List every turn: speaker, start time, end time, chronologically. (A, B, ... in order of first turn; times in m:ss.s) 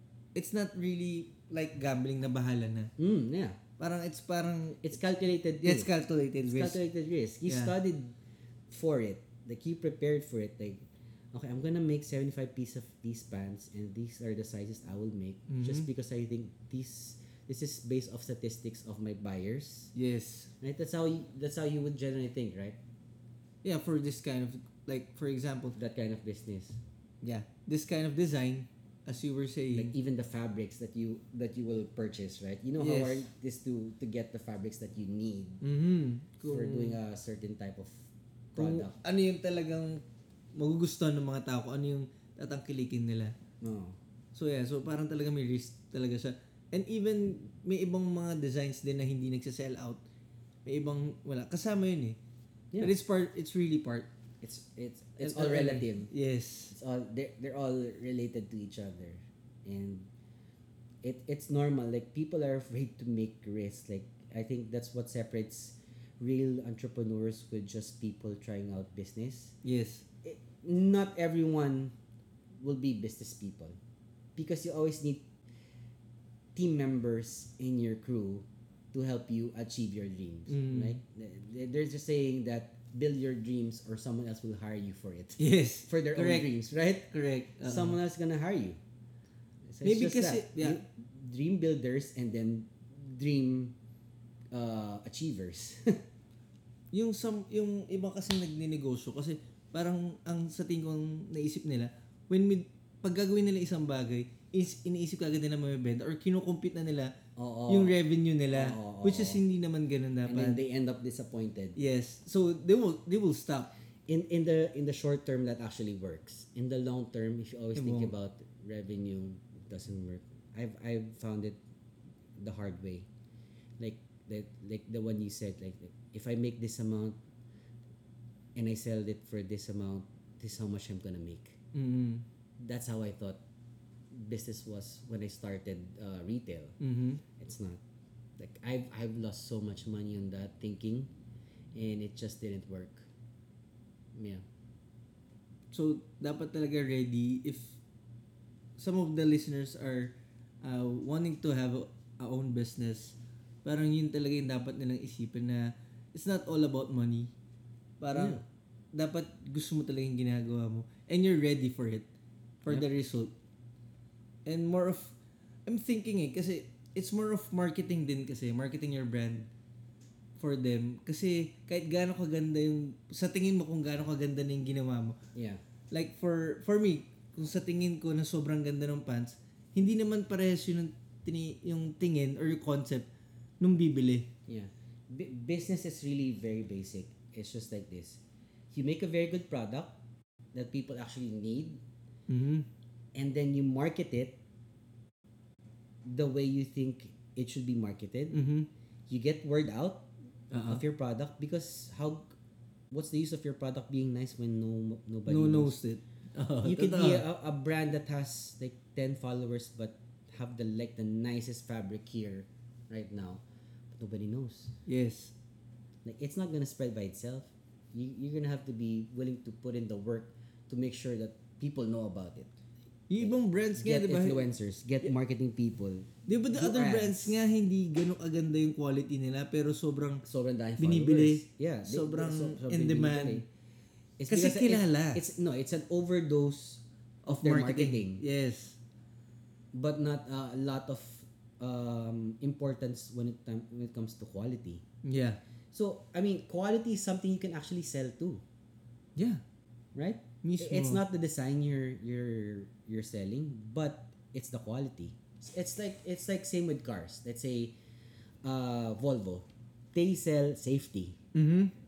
0:00.3-0:02.9 A
0:03.0-0:03.6 B
0:03.8-0:04.9 A
0:04.8-0:05.9 B
0:05.6-0:06.8 A
0:06.4-0:08.2 B
0:07.4-0:07.7 A
0:08.7-0:19.9 B
0:15.5-0:15.9 A
0:19.9-0:20.5 A
0:20.6-0:22.8 B
0:23.6-0:25.8 A
0:25.8-0:26.8 B
0:27.2-0:29.9 A
0:29.7-0:35.6 B
0:32.8-0:33.3 A
0:35.6-0:37.0 A
0:36.4-0:39.0 B
0:38.6-0:40.0 A
0:40.5-0:43.3 A
0:43.6-0:44.0 B
0:44.3-0:50.0 A
0:50.6-0:52.2 A
0:52.8-0:54.1 A
0:54.4-0:56.1 B
0:55.2-0:56.7 A
0:56.7-1:00.1 B
1:01.0-1:09.6 B
1:09.6-1:10.0 A
1:10.2-1:11.9 B
1:12.6-1:13.8 B
1:14.4-1:15.2 B
1:16.5-1:28.8 B
1:20.5-1:21.0 A
1:25.4-1:26.5 A
1:27.1-1:28.0 A
1:29.7-1:33.8 B
1:29.8-1:30.8 A
1:34.5-1:36.0 B
1:36.9-1:47.1 A
1:47.4-1:48.0 B
1:47.7-1:50.6 A
1:48.5-1:49.4 B
1:50.2-1:51.8 B
1:51.8-1:53.7 A
1:54.1-2:01.6 B
1:57.8-1:58.1 A
2:02.4-2:03.1 B
2:03.8-2:07.2 B
2:08.5-2:11.6 B
2:11.7-2:12.2 A
2:12.6-2:13.4 B
2:14.1-2:17.8 B
2:16.8-2:17.2 A
2:18.4-2:21.1 B
2:21.7-2:23.1 B
2:24.1-2:24.4 B
2:25.7-2:27.8 A
2:28.8-2:37.3 A
2:38.0-2:38.4 A
2:38.1-2:38.4 B
2:38.9-2:42.1 A
2:42.6-2:43.3 A
2:44.4-2:49.5 A
2:50.4-2:55.2 A
2:55.3-2:55.6 B
2:55.9-3:03.1 A
3:03.6-3:04.3 A
3:04.5-3:10.0 B
3:10.5-3:11.8 B
3:12.3-3:12.6 A
3:13.1-3:14.4 B
3:16.0-3:18.4 B
3:18.3-3:18.7 A
3:19.1-3:20.1 B
3:20.5-3:20.8 A
3:20.6-3:22.4 B
3:22.9-3:25.8 B
3:25.3-3:27.2 A
3:26.6-3:34.7 B
3:34.8-3:35.3 A
3:36.0-3:42.5 B
3:43.1-3:44.5 A
3:43.2-3:47.4 B
3:46.3-3:50.2 A
3:50.2-3:53.4 B
3:50.8-3:53.4 A
3:54.2-3:58.2 B
3:54.3-3:55.2 A
3:57.2-3:58.8 A
3:59.7-4:04.8 B
4:05.0-4:05.4 A
4:05.7-4:08.4 B
4:09.2-4:09.4 A
4:09.9-4:17.8 B
4:10.4-4:11.0 A
4:18.4-4:21.2 B
4:21.3-4:21.7 A